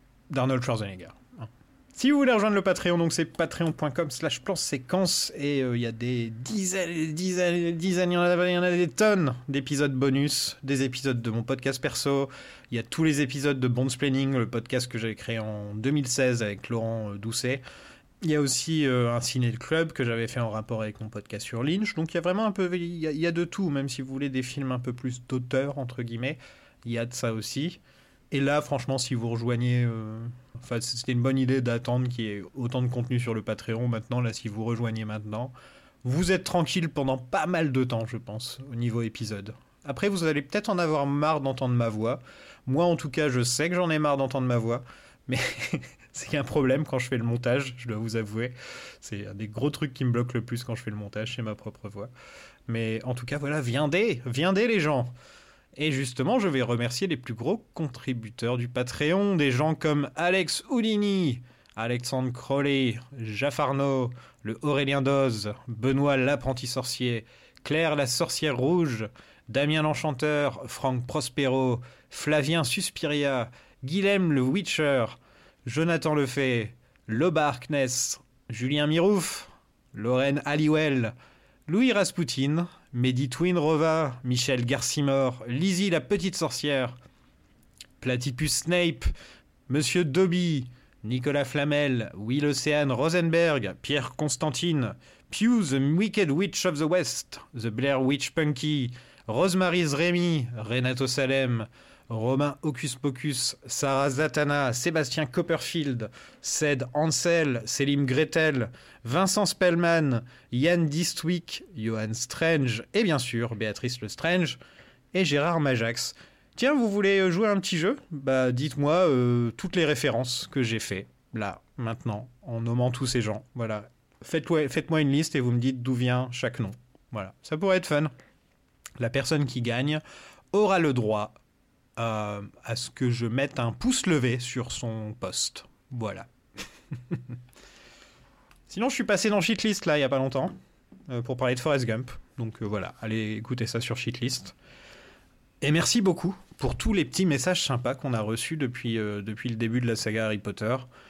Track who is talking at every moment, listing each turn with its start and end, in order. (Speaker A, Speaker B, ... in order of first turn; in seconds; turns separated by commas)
Speaker A: 0.3-17.6, Speaker A: 18.2-27.8, Speaker A: 28.3-52.1, Speaker A: 52.7-55.1, Speaker A: 55.8-81.1, Speaker A: 81.7-87.0, Speaker A: 88.0-89.1, Speaker A: 89.7-114.6, Speaker A: 115.1-128.1, Speaker A: 129.0-130.0, Speaker A: 130.5-131.3, Speaker A: 132.0-136.3, Speaker A: 138.7-140.6, Speaker A: 141.1-144.5, Speaker A: 145.6-150.9